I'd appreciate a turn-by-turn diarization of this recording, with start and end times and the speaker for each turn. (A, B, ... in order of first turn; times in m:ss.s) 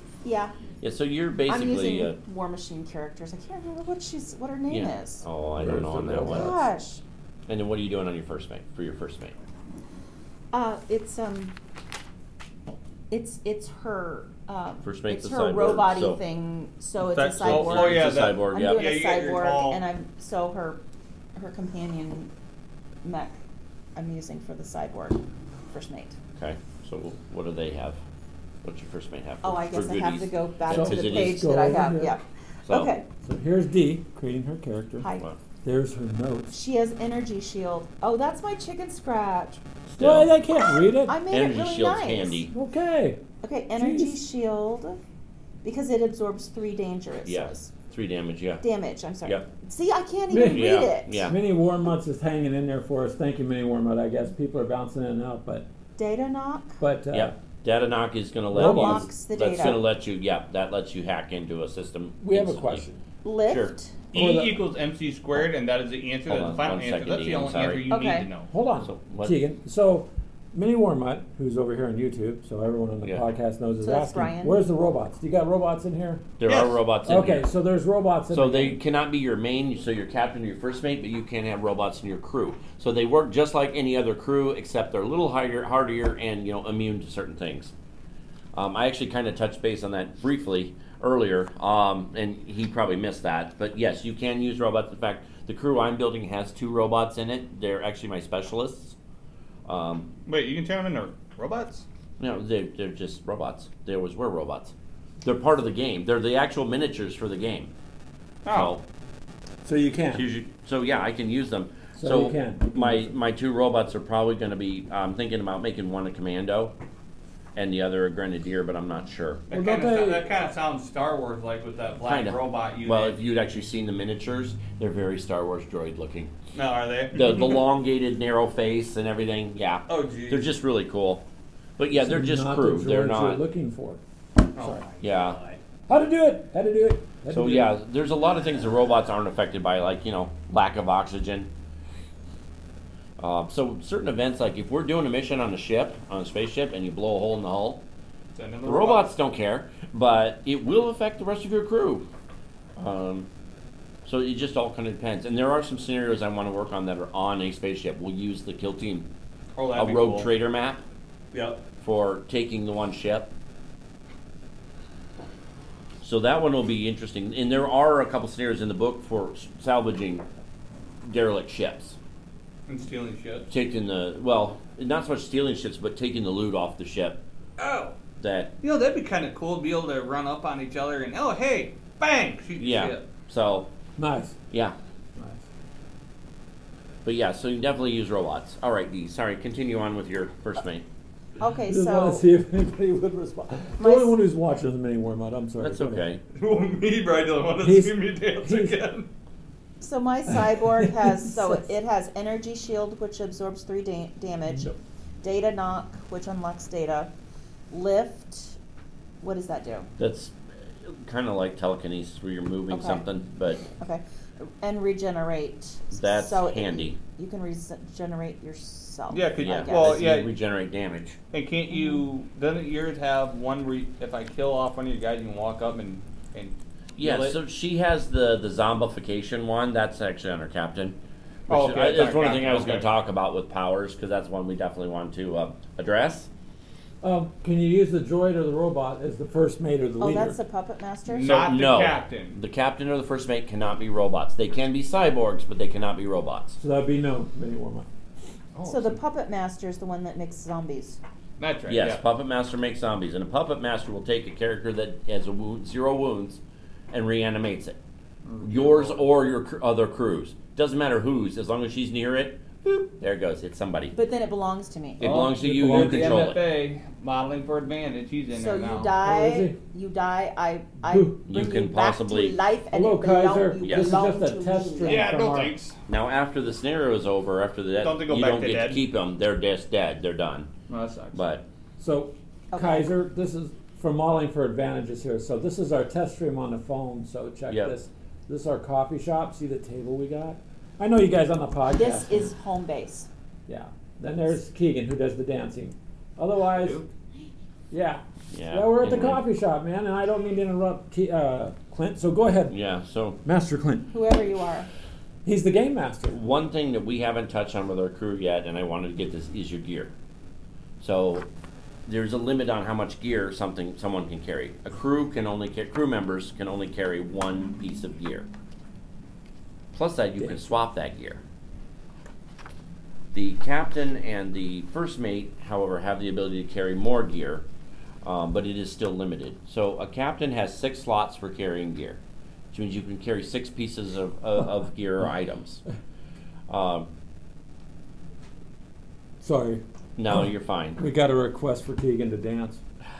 0:00.2-0:00.5 A
0:00.8-0:02.2 B
0:01.5-0:05.2 A
0:04.7-0:06.5 B
0:05.6-0:06.6 C
0:06.2-0:07.0 A
0:07.5-0:09.4 B
0:10.5-0:11.5 A
0:13.1-0:20.8 A
0:14.8-0:16.2 B
0:17.1-0:19.8 D
0:17.4-0:18.9 B
0:21.4-0:22.3 A
0:23.0-0:23.3 A
0:24.0-0:26.2 A
0:26.4-0:28.0 B
0:28.6-0:31.4 B
0:29.4-0:33.1 A
0:30.7-0:32.1 C
0:32.7-0:32.9 B
0:33.2-0:35.1 C
0:35.0-0:35.3 A
0:35.6-0:36.5 C
0:36.5-0:39.6 A
0:39.9-0:40.4 B
0:40.0-0:41.2 C
0:40.9-0:42.4 A
0:41.3-0:42.5 B
0:42.5-0:43.2 C
0:43.4-0:45.0 A
0:43.8-0:44.2 C
0:45.6-0:47.7 A
0:47.2-0:48.6 B
0:48.6-0:51.2 A
0:50.3-0:55.7 C
0:50.5-0:51.4 B
0:56.0-0:56.8 A
0:56.8-0:57.4 C
0:57.1-1:02.9 B
0:58.5-0:59.1 C
0:58.5-0:59.8 A
1:02.2-1:03.0 C
1:03.2-1:04.0 A
1:03.5-1:03.8 B
1:04.1-1:08.5 D
1:04.1-1:04.6 C
1:06.3-1:07.9 B
1:07.9-1:08.3 A
1:08.5-1:16.3 C
1:08.8-1:09.4 B
1:13.8-1:14.6 A
1:16.4-1:17.5 B
1:16.5-1:16.8 D
1:17.0-1:18.8 C
1:18.3-1:27.7 B
1:28.5-1:39.0 B
1:39.7-1:40.1 B
1:40.3-1:41.8 D
1:42.2-1:47.7 B
1:48.4-1:48.8 D
1:48.5-1:48.8 B
1:49.6-1:50.2 C
1:50.1-1:56.7 B
1:52.0-1:53.2 C
1:57.6-1:59.4 B
1:59.5-2:03.2 D
1:59.5-2:00.3 C
2:02.0-2:06.3 B
2:06.5-2:07.6 D
2:07.1-2:11.2 B
2:09.9-2:10.5 D
2:11.8-2:13.4 B
2:11.9-2:14.0 C
2:14.6-2:15.6 D
2:14.6-2:14.8 C
2:15.0-2:15.4 B
2:15.9-2:17.8 C
2:17.3-2:21.5 B
2:23.2-2:27.8 B
2:28.3-2:29.1 D
2:28.6-2:32.1 B
2:32.8-2:33.3 B
2:34.0-2:39.1 B
2:39.6-2:40.3 D
2:39.8-2:40.8 B
2:41.3-2:41.6 D
2:41.8-2:43.3 B
2:46.0-2:50.3 B
2:51.0-2:52.0 B
2:52.7-2:53.5 D
2:53.5-2:57.2 B
2:57.6-2:58.0 D
2:58.2-2:58.5 B
2:58.6-3:03.0 D
3:02.6-3:03.7 B
3:04.0-3:04.4 C
3:04.5-3:04.8 B
3:05.2-3:05.4 C
3:07.0-3:10.8 B
3:11.4-3:12.2 A
3:11.7-3:16.0 C
3:13.8-3:14.2 A
3:15.6-3:16.2 B
3:16.3-3:19.1 D
3:17.6-3:18.8 C
3:19.8-3:24.7 A
3:20.3-3:21.5 C
3:25.2-3:27.1 A
3:27.7-3:28.6 A
3:29.2-3:29.9 A
3:30.0-3:33.7 B
3:32.7-3:33.0 A
3:33.8-3:40.0 A
3:35.9-3:37.0 B
3:39.1-3:40.3 D
3:39.4-3:41.2 B
3:41.3-3:47.4 D
3:41.7-3:42.0 A
3:47.0-3:51.0 B
3:51.5-3:52.9 D
3:51.5-3:56.3 B
3:57.0-4:00.4 C
4:00.0-4:01.4 A
4:01.1-4:02.4 D
4:01.2-4:06.6 B
4:06.6-4:07.9 C
4:08.6-4:09.0 D
4:08.7-4:11.0 A
4:11.4-4:12.0 D
4:11.7-4:17.8 B
4:18.2-4:19.0 D
4:18.4-4:24.0 B
4:23.9-4:25.1 A
4:25.0-4:26.4 B
4:25.0-4:28.9 D
4:25.0-4:26.3 C
4:28.3-4:35.1 A
4:29.0-4:29.6 C
4:30.8-4:31.2 C
4:31.3-4:32.4 B
4:32.7-4:35.6 C
4:33.6-4:34.0 B
4:34.8-4:35.8 D
4:35.9-4:40.5 B
4:37.8-4:38.8 D
4:40.7-4:41.2 D
4:41.1-4:41.5 B
4:41.8-4:52.3 C
4:42.5-4:42.9 A
4:47.5-4:47.8 B
4:51.7-4:53.1 A
4:53.5-4:56.8 C
4:56.5-4:56.9 D
4:57.7-5:02.6 C
4:58.3-4:59.3 B
5:02.5-5:03.2 B
5:03.2-5:03.9 C
5:03.9-5:04.7 A
5:05.2-5:06.2 C
5:06.1-5:09.9 B
5:10.8-5:11.3 B
5:11.9-5:18.3 B
5:19.7-5:21.2 B
5:20.2-5:20.6 C
5:23.1-5:27.5 B
5:28.0-5:32.0 B
5:32.5-5:35.6 B
5:36.5-5:36.9 B
5:39.2-5:42.6 C
5:40.0-5:40.8 B